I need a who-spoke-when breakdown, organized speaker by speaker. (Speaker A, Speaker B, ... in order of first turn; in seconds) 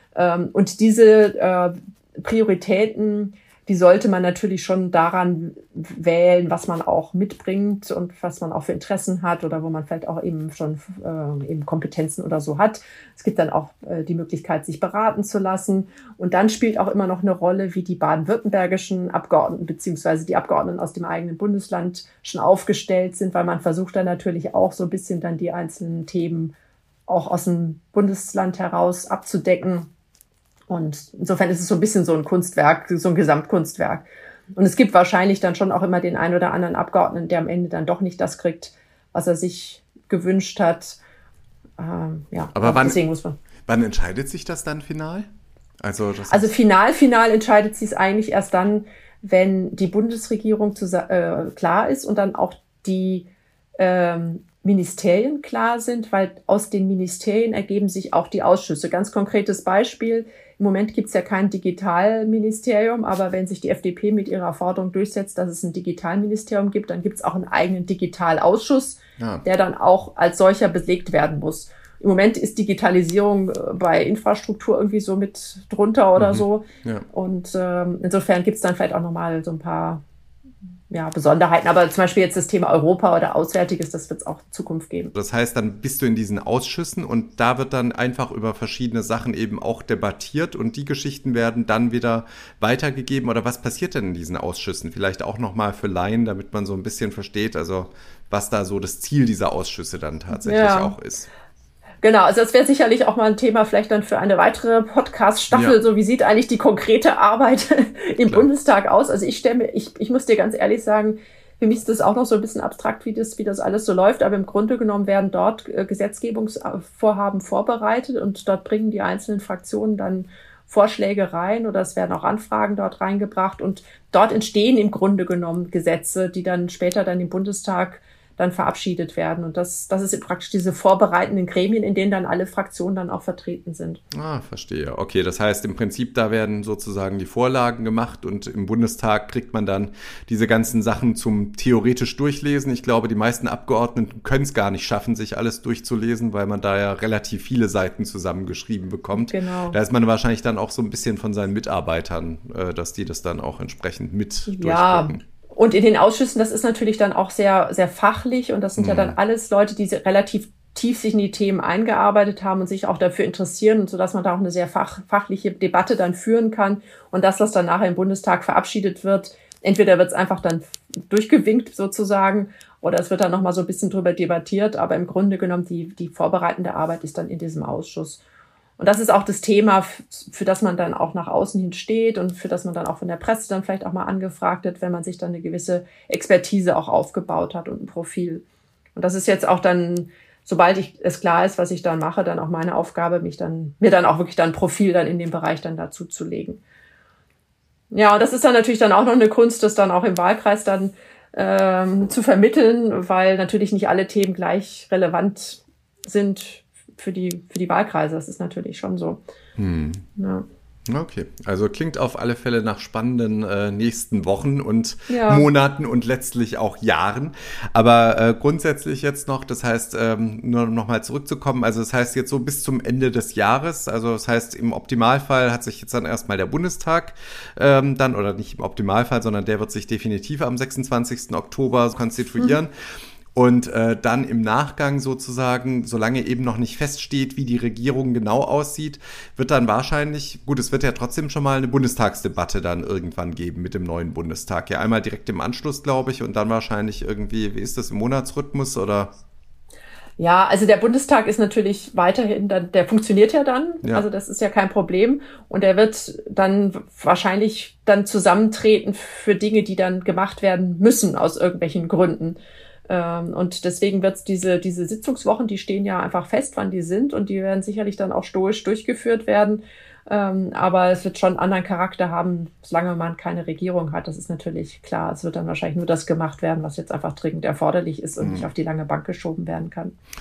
Speaker A: 0.1-26.5, 27.1-29.9, 30.7-41.0, 41.8-43.4, 46.3-53.3, 53.8-80.0, 80.9-85.1, 100.3-100.9, 102.0-134.0, 149.1-149.8, 154.5-178.2, 178.8-188.4, 188.9-196.6, 197.9-209.2, 210.2-210.4, 215.1-215.5, 250.2-262.4, 262.9-279.9
Speaker B: 42.5-43.0, 43.6-45.3, 45.8-46.5, 69.2-69.4, 76.2-77.0, 85.1-101.3, 105.5-105.8, 134.1-155.2, 158.8-159.1, 209.6-210.0, 210.9-232.7, 233.3-249.1, 278.2-278.5